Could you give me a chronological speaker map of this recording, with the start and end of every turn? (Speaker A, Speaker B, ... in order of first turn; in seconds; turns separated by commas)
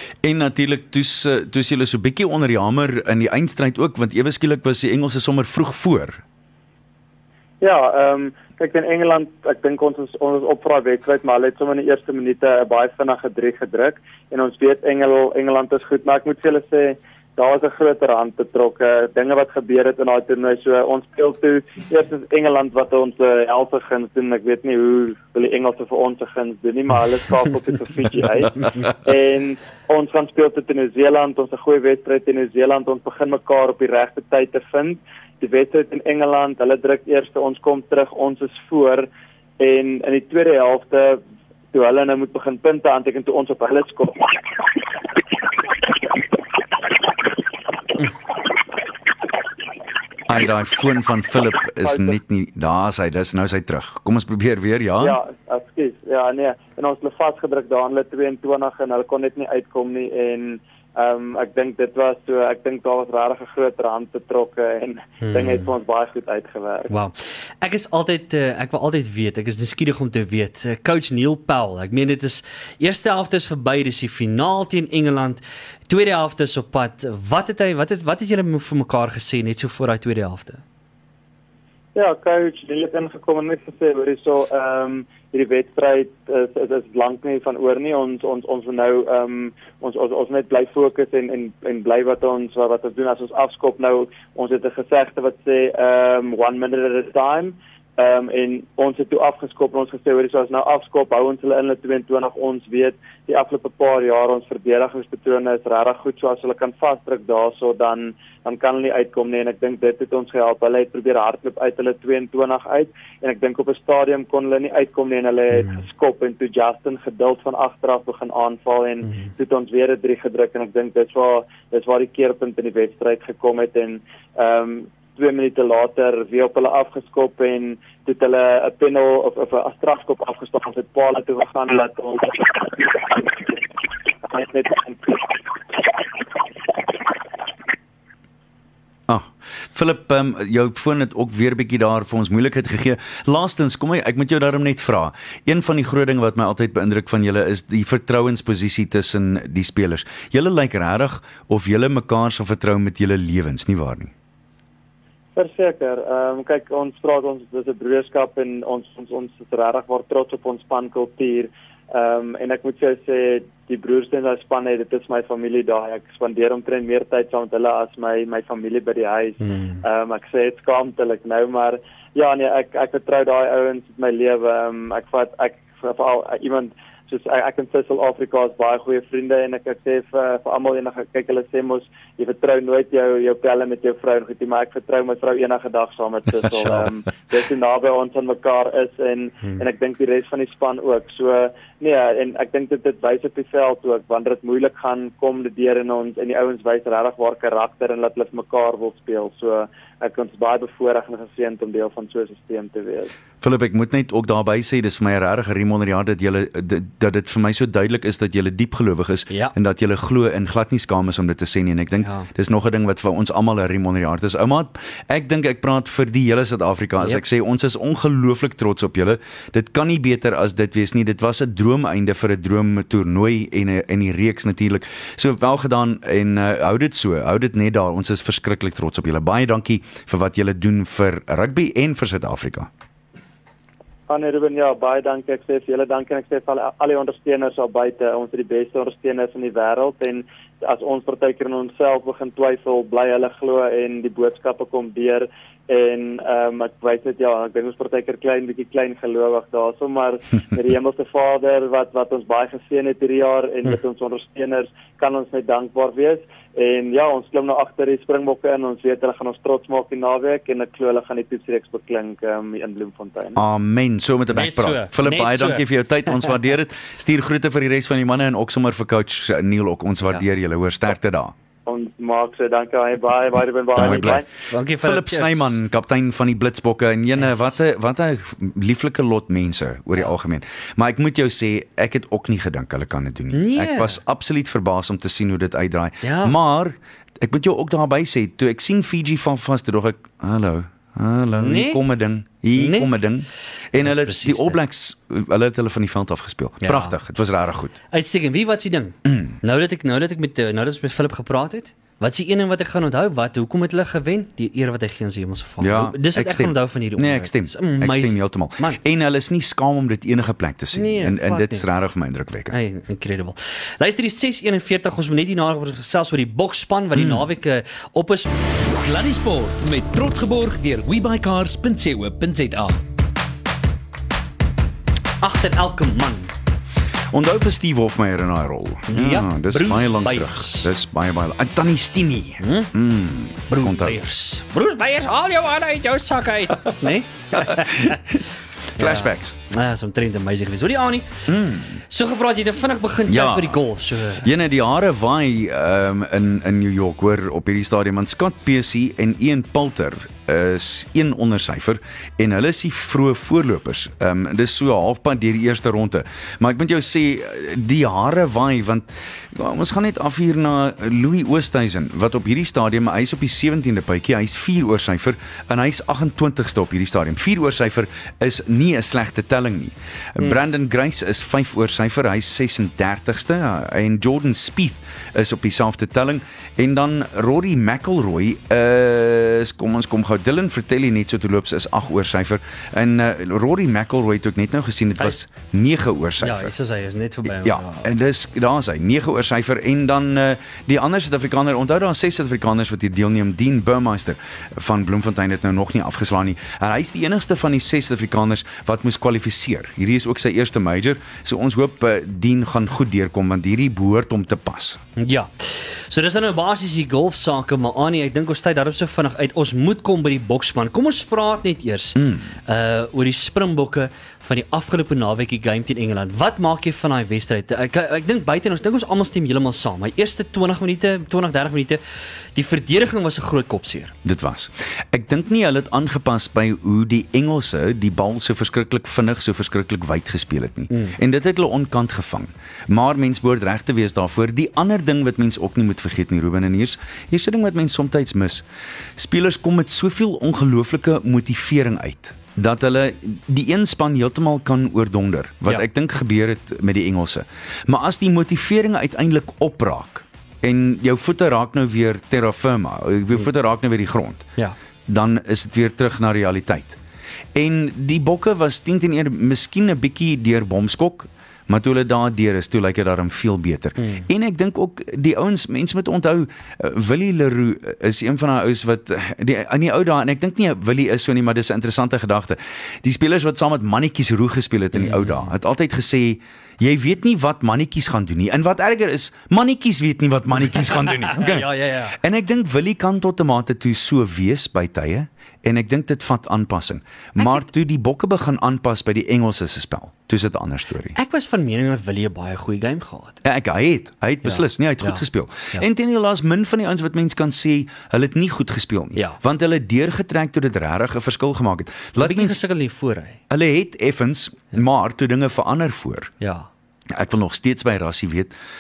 Speaker A: 0.2-6.2, Speaker B: 7.6-39.1, Speaker B: 39.6-41.2, Speaker B: 41.7-44.4, Speaker A: 50.3-55.2, Speaker B: 51.8-52.2, Speaker B: 55.0-66.9, Speaker C: 65.2-65.7, Speaker C: 66.9-80.6, Speaker B: 82.0-133.2, Speaker C: 115.5-115.8, Speaker B: 134.3-135.3, Speaker A: 139.1-154.1, Speaker B: 155.4-203.1, Speaker C: 169.4-169.8, Speaker A: 203.4-232.7, Speaker C: 212.0-212.3, Speaker B: 234.1-263.4, Speaker A: 263.4-271.3, Speaker C: 264.3-266.3, Speaker B: 271.7-274.3, Speaker A: 273.8-274.2, Speaker C: 273.8-275.6, Speaker A: 274.8-297.8, Speaker C: 283.3-284.0, Speaker C: 286.0-286.4, Speaker C: 291.4-291.8, Speaker C: 292.6-292.9, Speaker C: 293.8-294.6, Speaker C: 296.6-297.0, Speaker C: 297.9-308.8, Speaker A: 299.1-299.4, Speaker A: 305.6-312.6, Speaker C: 310.7-311.7, Speaker C: 312.5-318.4, Speaker A: 316.9-317.3, Speaker D: 318.6-322.8, Speaker C: 325.2-326.3, Speaker A: 327.1-334.0, Speaker C: 328.9-330.7, Speaker C: 332.4-332.7, Speaker C: 333.5-338.0, Speaker A: 337.3-338.2, Speaker A: 338.8-339.3, Speaker C: 338.8-341.2, Speaker A: 341.3-341.8, Speaker C: 341.9-344.3, Speaker A: 343.1-343.6, Speaker A: 344.2-386.5, Speaker C: 386.2-387.9, Speaker A: 387.2-404.8, Speaker C: 405.0-421.8, Speaker A: 412.0-412.3, Speaker C: 422.4-423.9, Speaker A: 424.0-438.4, Speaker C: 430.7-431.0, Speaker A: 439.0-454.2, Speaker A: 454.9-456.8, Speaker A: 457.4-491.0, Speaker C: 463.8-464.1, Speaker C: 474.7-475.4, Speaker C: 480.6-482.0, Speaker C: 490.9-493.2, Speaker A: 493.2-502.4, Speaker C: 494.2-495.7, Speaker C: 502.0-503.2, Speaker A: 503.3-506.1, Speaker C: 506.2-506.5, Speaker A: 506.9-508.3